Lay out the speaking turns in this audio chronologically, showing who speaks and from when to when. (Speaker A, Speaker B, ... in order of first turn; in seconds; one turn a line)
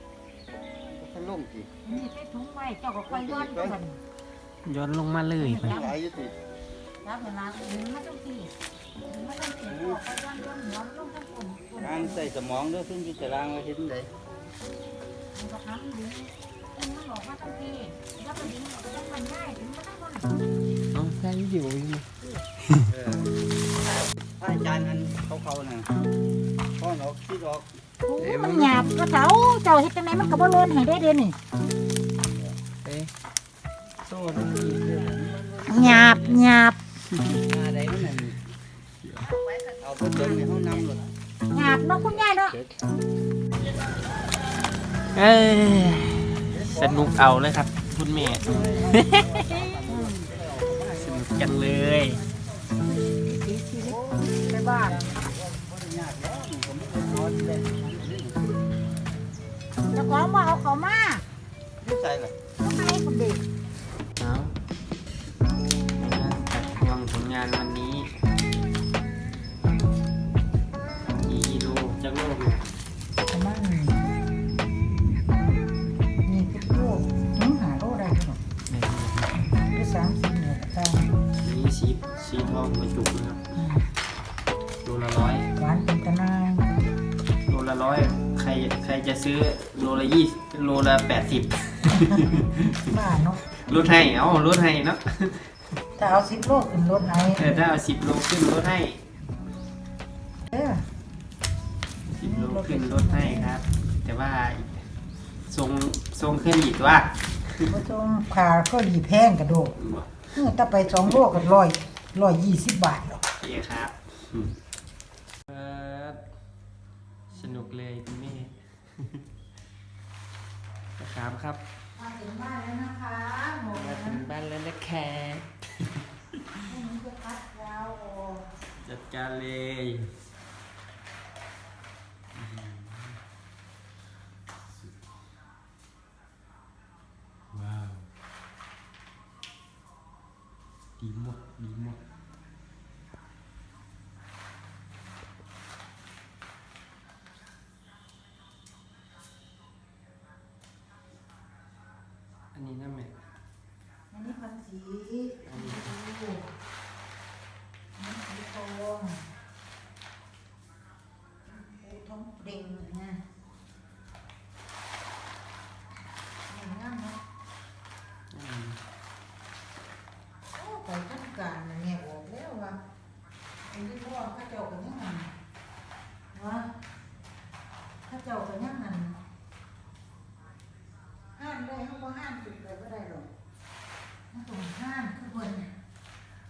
Speaker A: 0.9-1.7
Speaker B: 1.8-4.0
Speaker A: 3.1-3.8
Speaker C: 4.6-5.8
Speaker B: 5.4-6.0
Speaker A: 5.7-6.3
Speaker B: 7.0-8.5
Speaker B: 9.1-12.3
Speaker A: 9.7-10.0
Speaker A: 11.8-14.1
Speaker B: 15.3-20.3
Speaker C: 20.9-22.1
Speaker A: 22.9-23.3
Speaker A: 24.4-25.9
Speaker A: 26.8-27.7
Speaker B: 28.0-31.4
Speaker C: 28.2-28.8
Speaker C: 32.8-33.1
Speaker A: 34.1-36.4
Speaker B: 35.6-36.8
Speaker C: 37.2-37.4
Speaker A: 37.5-38.3
Speaker C: 39.0-39.3
Speaker A: 39.8-41.0
Speaker B: 41.5-42.6
Speaker C: 45.1-50.3
Speaker A: 46.5-47.2
Speaker A: 48.4-51.3
Speaker C: 51.0-52.2
Speaker B: 53.3-55.0
Speaker A: 53.8-58.4
Speaker B: 59.9-61.2
Speaker A: 61.8-62.4
Speaker B: 62.6-63.4
Speaker C: 64.2-64.5
Speaker C: 65.9-68.1
Speaker C: 71.0-72.7
Speaker B: 73.3-74.1
Speaker B: 76.2-78.4
Speaker C: 78.7-79.4
Speaker B: 79.6-81.1
Speaker C: 81.4-83.4
Speaker B: 83.5-83.9
Speaker C: 84.8-85.5
Speaker B: 85.6-86.7
Speaker C: 87.5-95.5
Speaker B: 91.8-93.4
Speaker B: 96.0-97.7
Speaker C: 97.3-99.0
Speaker B: 100.5-100.8
Speaker C: 102.1-104.8
Speaker B: 102.2-103.6
Speaker C: 105.5-107.8
Speaker B: 107.7-109.8
Speaker C: 109.8-110.3
Speaker B: 110.3-113.2
Speaker C: 113.3-114.5
Speaker C: 115.5-116.2
Speaker C: 117.3-119.2
Speaker C: 121.0-121.6
Speaker B: 122.0-124.3
Speaker C: 123.7-126.0
Speaker B: 126.7-128.4
Speaker C: 128.8-130.1
Speaker C: 132.3-133.2
Speaker C: 137.5-138.1
Speaker C: 141.0-142.0
Speaker C: 152.5-153.1
Speaker B: 154.1-156.5
Speaker C: 155.4-155.9
Speaker B: 157.9-159.2
Speaker B: 161.4-163.2
Speaker B: 166.5-167.2
Speaker C: 168.3-168.8
Speaker B: 170.5-172.8
Speaker B: 173.6-175.3
Speaker B: 176.3-176.7
Speaker B: 178.1-179.2
Speaker B: 181.3-183.3
Speaker B: 184.3-185.7